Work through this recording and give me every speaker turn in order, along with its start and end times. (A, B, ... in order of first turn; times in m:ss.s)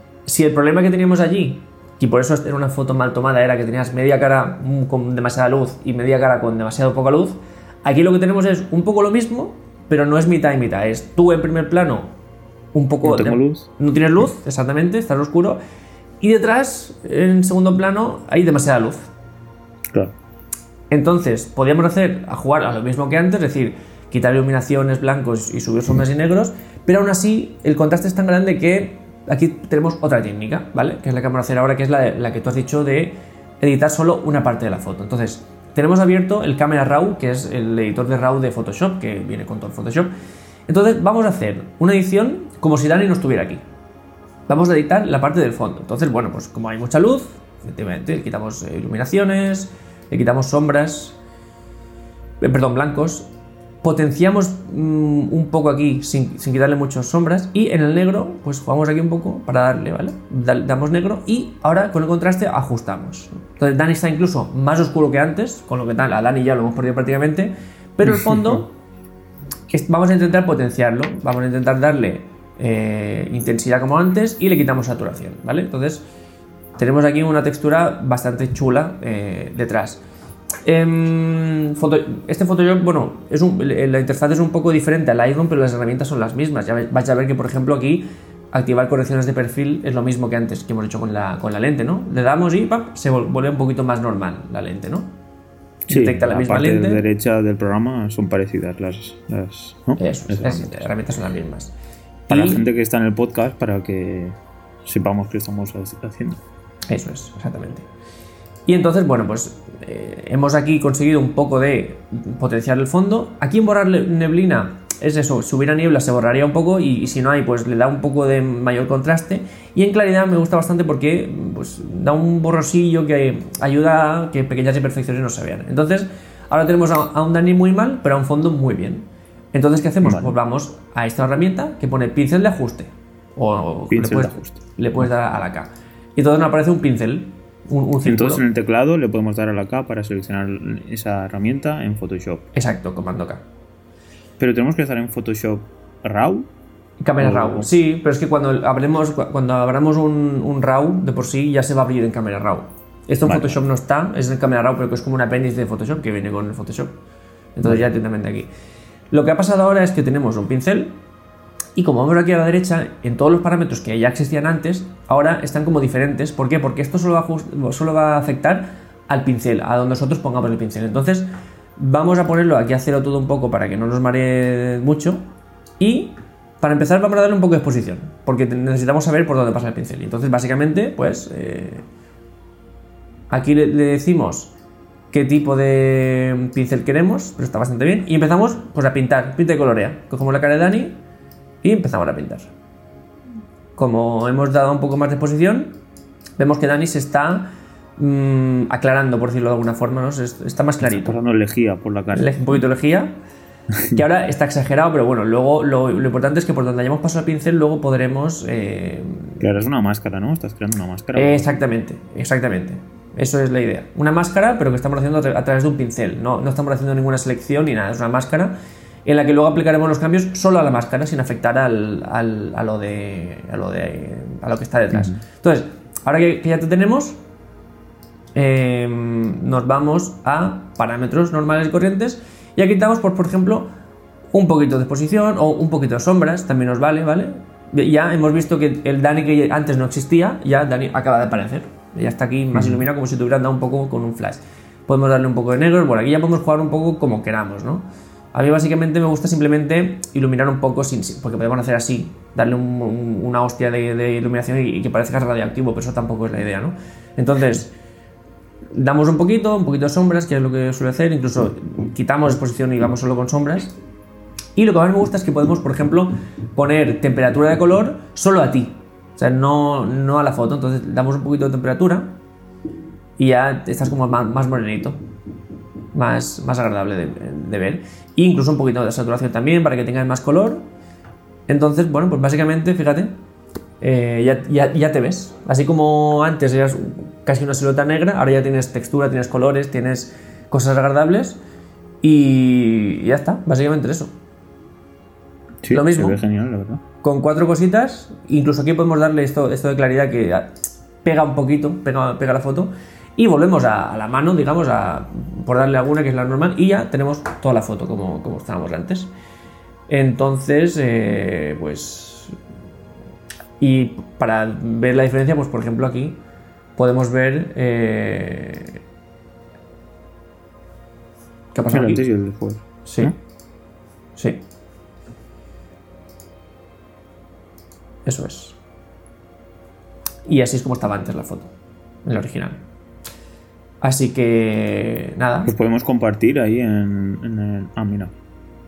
0:00.2-0:12.1 A
0:12.7-0:15.6 A
0:13.0-0:13.7 B
0:16.2-0:19.1 A
0:20.9-0:40.1 A
0:40.7-0:43.6 A
0:44.5-0:51.2 A
0:52.4-0:53.3 A
0:53.8-1:08.7 A
1:09.7-1:16.0 A
1:16.8-1:20.0 A
1:20.6-1:35.1 A
1:35.9-1:40.9 B
1:35.9-1:37.0 A
1:40.0-1:41.7 A
1:42.3-1:42.6 A
1:42.3-1:46.4 B
1:46.9-1:47.9 A
1:48.7-2:18.4 A
2:10.0-2:10.3 B
2:13.9-2:15.0 B
2:18.0-2:22.5 B
2:22.5-2:23.4 A
2:24.4-2:26.5 B
2:27.0-2:36.9 A
2:27.2-2:27.7 B
2:33.2-2:33.6 B
2:37.6-2:38.5 A
2:39.1-2:41.0 A
2:41.7-2:55.2 A
2:55.8-3:01.8 A
3:03.3-3:04.5 A
3:05.1-3:11.0 A
3:11.6-3:12.5 A
3:13.8-3:15.8 A
3:16.4-3:21.2 A
3:20.8-3:22.3 B
3:22.1-3:23.1 A
3:23.9-3:29.4 A
3:29.4-3:31.5 B
3:31.1-3:38.5 A
3:39.0-3:47.2 A
3:48.3-3:53.7 A
3:54.3-4:17.7 A
4:02.5-4:02.8 B
4:18.7-4:23.8 A
4:24.6-4:32.1 A
4:33.2-4:35.0 A
4:35.9-4:40.6 A
4:41.5-4:43.1 A
4:43.8-4:51.4 A
4:52.0-4:54.1 A
4:55.6-4:56.8 B
4:55.7-4:56.2 A
4:57.0-5:00.5 A
5:01.0-5:09.1 A
5:09.9-5:12.4 A
5:13.6-5:16.2 A
5:16.8-5:18.8 A
5:21.5-5:22.0 A
5:21.7-5:23.1 B
5:22.8-5:23.1 A
5:24.2-5:24.4 A
5:28.0-5:28.6 A
5:30.2-5:31.5 A
5:32.0-5:32.6 A
5:33.8-5:35.5 A
5:35.4-5:38.1 B